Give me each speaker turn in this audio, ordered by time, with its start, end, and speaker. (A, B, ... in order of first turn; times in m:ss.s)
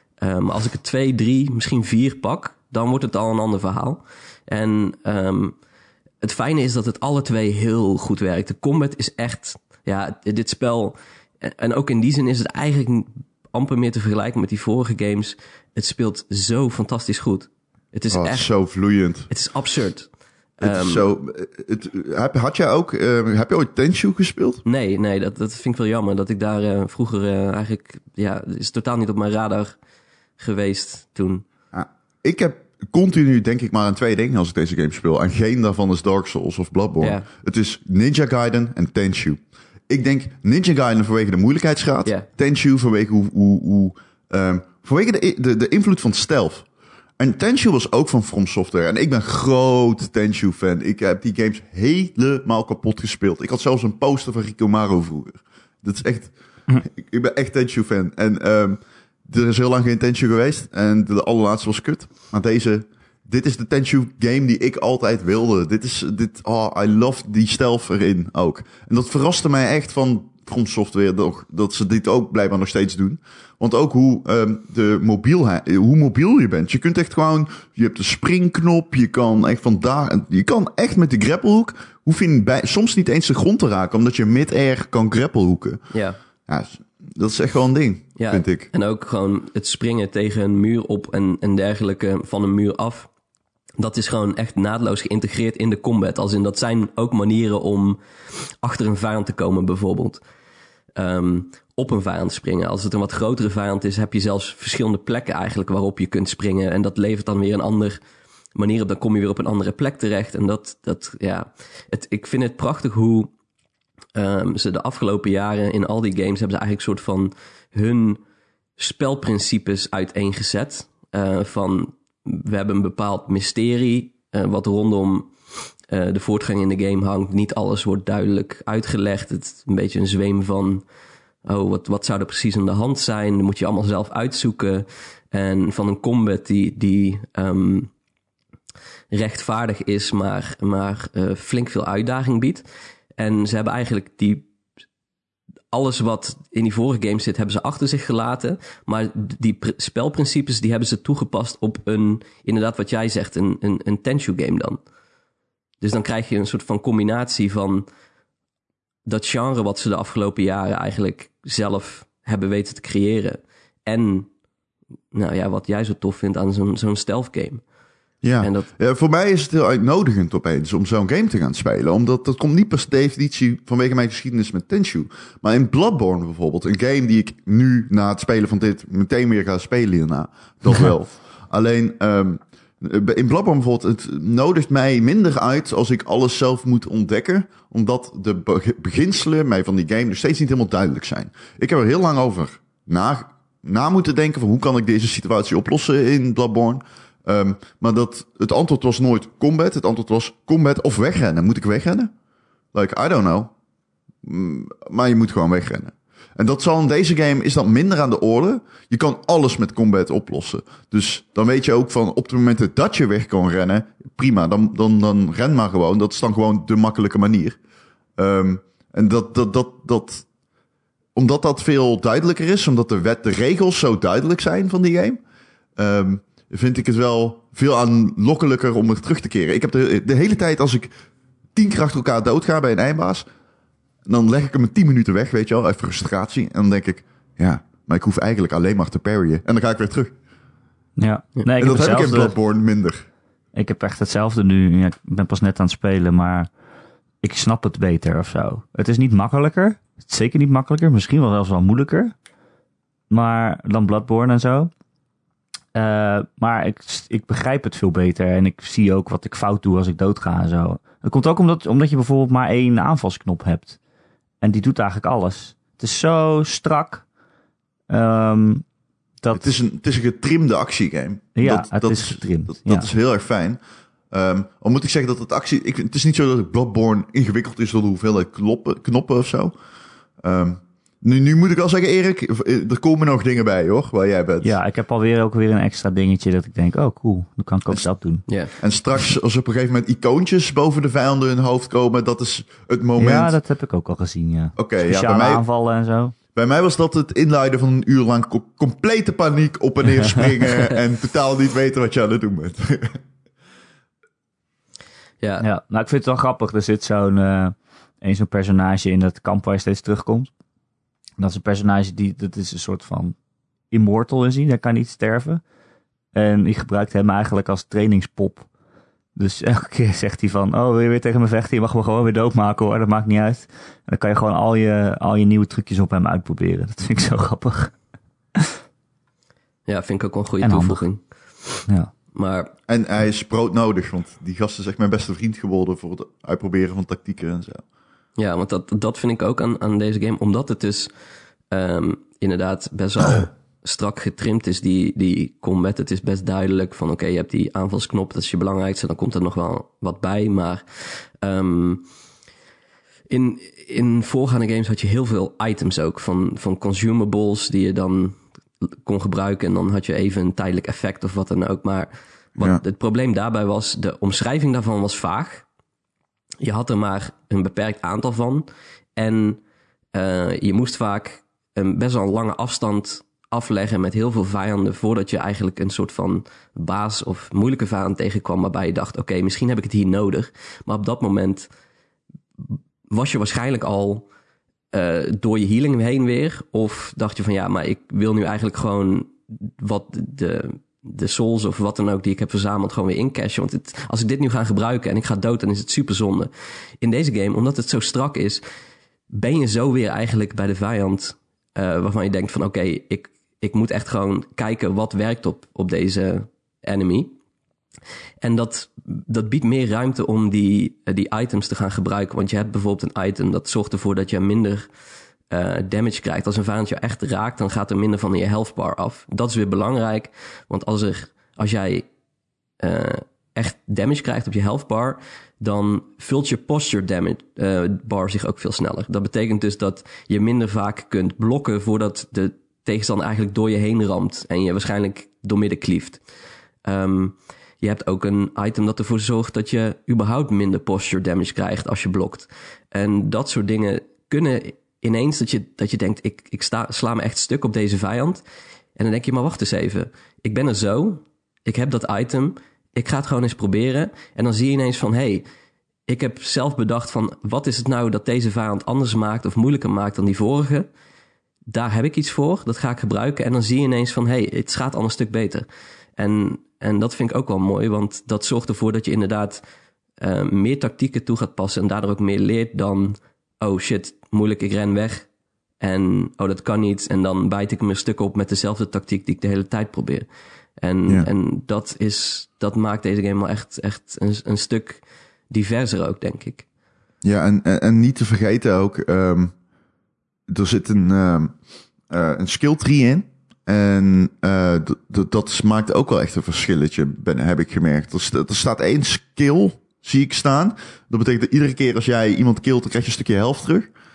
0:00.2-0:05.6 A
0:06.2-0:18.5 A
0:18.1-0:19.3 B
0:19.3-0:21.0 A
0:20.6-0:24.6 B
0:24.6-0:29.8 A
0:30.4-0:31.4 A
0:31.7-0:46.6 B
0:37.0-0:37.2 A
0:47.2-1:25.8 B
1:25.9-1:26.2 A
1:26.5-1:28.7 B
1:28.2-1:33.1 A
1:33.8-1:38.0 A
1:38.6-1:40.2 A
1:41.0-1:48.0 A
1:48.5-1:53.3 A
1:54.1-1:58.2 A
1:58.8-2:05.3 A
2:05.9-2:10.8 A
2:11.4-2:17.9 A
2:19.1-2:22.6 A
2:23.2-2:24.5 A
2:25.7-2:34.8 A
2:35.8-2:37.9 A
2:39.0-2:44.3 A
2:45.1-2:47.6 A
2:48.2-3:22.1 B
2:48.4-2:48.7 A
3:22.7-3:23.5 B
3:24.2-3:37.6 B
3:38.2-3:40.3 B
3:41.1-3:45.2 B
3:45.8-3:50.9 B
3:51.5-3:53.3 B
3:54.0-4:00.1 B
4:01.0-4:02.3 C
4:01.6-4:03.0 B
4:03.5-4:06.5 C
4:07.2-4:12.1 C
4:13.1-4:14.7 C
4:15.7-4:23.8 C
4:24.4-4:27.0 C
4:27.9-4:28.6 C
4:29.2-4:29.5 C
4:29.3-4:33.6 B
4:31.4-4:32.9 C
4:34.1-4:39.5 B
4:40.2-4:44.6 B
4:44.4-4:48.2 C
4:48.3-4:48.5 A
4:48.6-4:53.4 B
4:53.0-4:56.1 C
4:54.6-4:55.4 B
4:56.3-5:03.0 B
5:05.2-5:05.4 A
5:05.4-5:10.3 C
5:11.2-5:13.2 C
5:13.7-5:15.4 C
5:16.1-5:18.5 C
5:19.2-5:27.8 C
5:29.6-5:32.5 A
5:30.4-5:30.8 C
5:32.7-5:37.6 B
5:38.2-5:40.9 A
5:41.5-5:51.9 A
5:53.1-6:05.4 A
6:06.4-6:09.4 A
6:09.9-6:21.5 A
6:22.9-6:24.1 A
6:24.7-6:38.4 A
6:39.1-6:47.2 A
6:48.2-6:54.7 A
6:55.3-7:01.9 A
7:02.6-7:16.0 A
7:16.6-7:28.2 A
7:28.8-7:35.2 A
7:35.9-7:40.7 A
7:41.5-7:45.4 A
7:46.0-7:49.4 A
7:50.0-7:55.1 A
7:55.6-8:06.4 A
8:07.0-8:09.3 B
8:10.3-8:11.4 B
8:11.9-8:23.7 B